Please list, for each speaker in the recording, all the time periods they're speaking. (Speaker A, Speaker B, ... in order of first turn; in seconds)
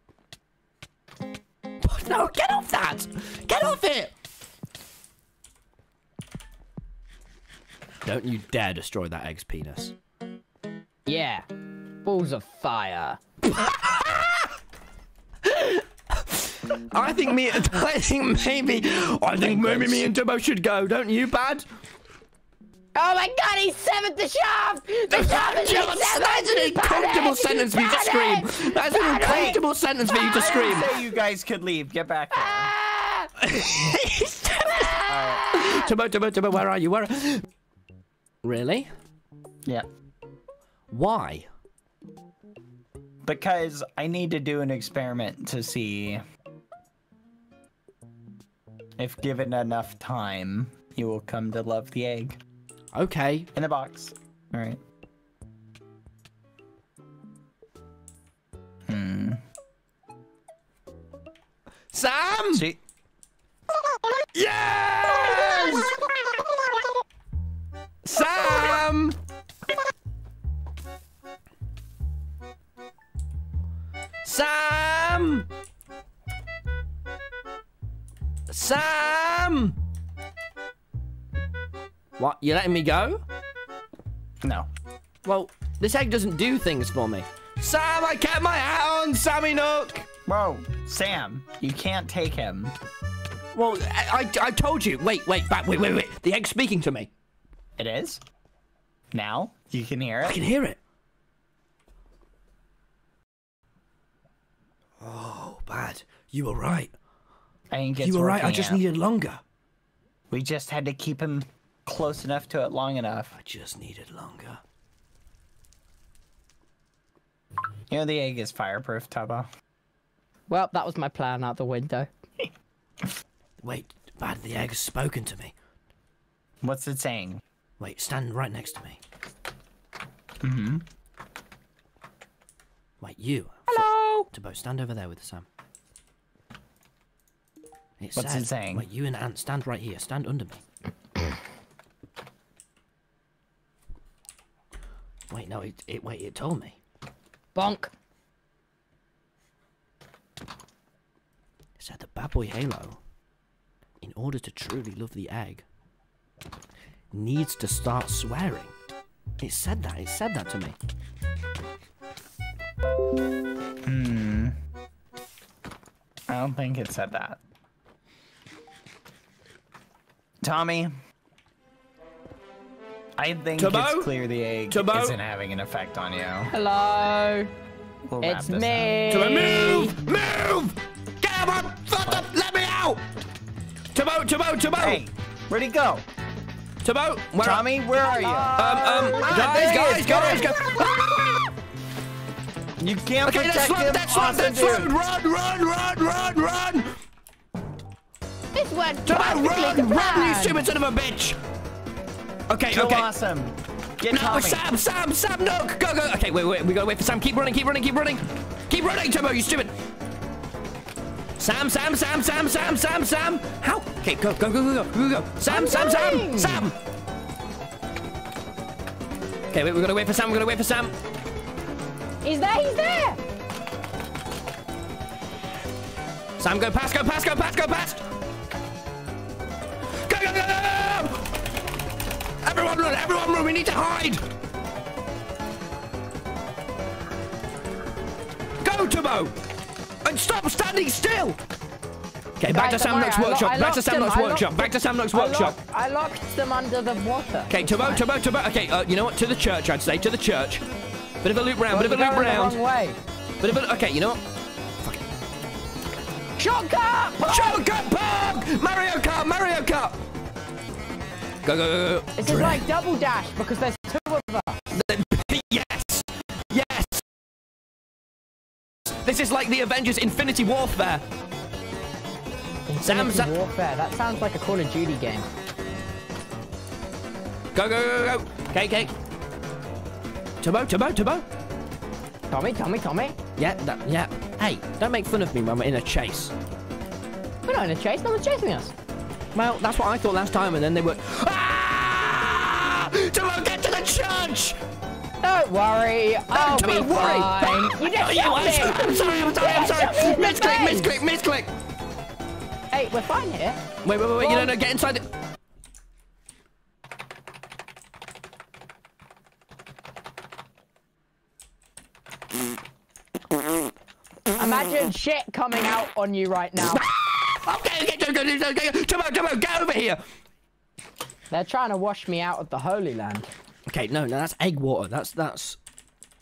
Speaker A: 1.8-4.1, 8.1-9.9, 13.5-14.5, 15.5-21.7, 25.1-31.0, 33.4-37.4, 38.4-38.9, 40.9-41.5, 52.9-53.5, 61.9-62.7, 64.3-66.0, 68.0-69.2, 74.2-75.5, 78.5-79.8, 82.2-83.2, 85.2-90.1, 93.5-97.1, 100.2-100.8, 105.0-106.9, 108.0-109.4, 113.3-114.6, 123.6-125.5, 127.8-129.0, 133.0-135.5, 138.0-140.6, 145.3-146.8, 151.8-153.0, 154.0-155.7, 157.1-158.7, 159.4-160.8, 173.6-174.1, 174.7-175.2, 179.1-183.0, 183.9-185.0, 186.8-187.7, 188.6-191.5, 193.2-196.9, 199.1-201.4, 202.5-203.1, 204.1-209.7, 211.4-216.8, 219.5-220.9, 226.4-228.0, 230.0-231.3, 232.4-234.2, 238.6-239.3, 240.0-241.4, 242.4-245.6, 247.5-250.6, 251.2-252.6, 253.4-254.2, 257.2-260.0, 261.4-262.6, 264.7-267.0, 269.0-271.0, 272.8-273.4, 277.6-278.9, 280.4-281.2, 283.4-286.3, 289.4-294.6, 296.3-301.5, 303.8-305.1, 316.7-320.0, 323.7-325.6
Speaker B: 11.1-11.5, 12.1-13.2, 22.9-29.6, 32.4-33.3, 34.6-35.8, 120.5-122.1, 133.7-134.3, 147.6-147.9, 176.5-177.5, 178.2-180.0, 188.0-190.8, 198.5-200.7, 215.5-216.7, 222.2-223.2, 242.5-248.1, 251.7-253.0, 256.4-257.6, 262.2-264.6, 272.7-275.3, 282.3-283.2, 287.4-288.7, 295.2-301.0, 302.7-303.6, 304.1-304.5, 314.4-316.8, 321.3-323.3
Speaker C: 19.4-20.1, 29.2-32.7, 35.1-35.5, 43.2-46.2, 49.0-52.4, 53.5-54.8, 58.9-59.4, 62.5-62.8, 84.4-84.7, 90.3-92.7, 97.8-98.2, 99.1-100.4, 107.7-108.8, 110.3-113.3, 117.9-119.5, 126.6-127.4, 130.4-130.9, 138.2-138.9, 163.9-164.6, 166.3-167.4, 170.4-170.9, 173.2-176.5, 178.1-178.9, 184.8-186.1, 187.4-190.9, 192.8-194.9, 202.7-204.7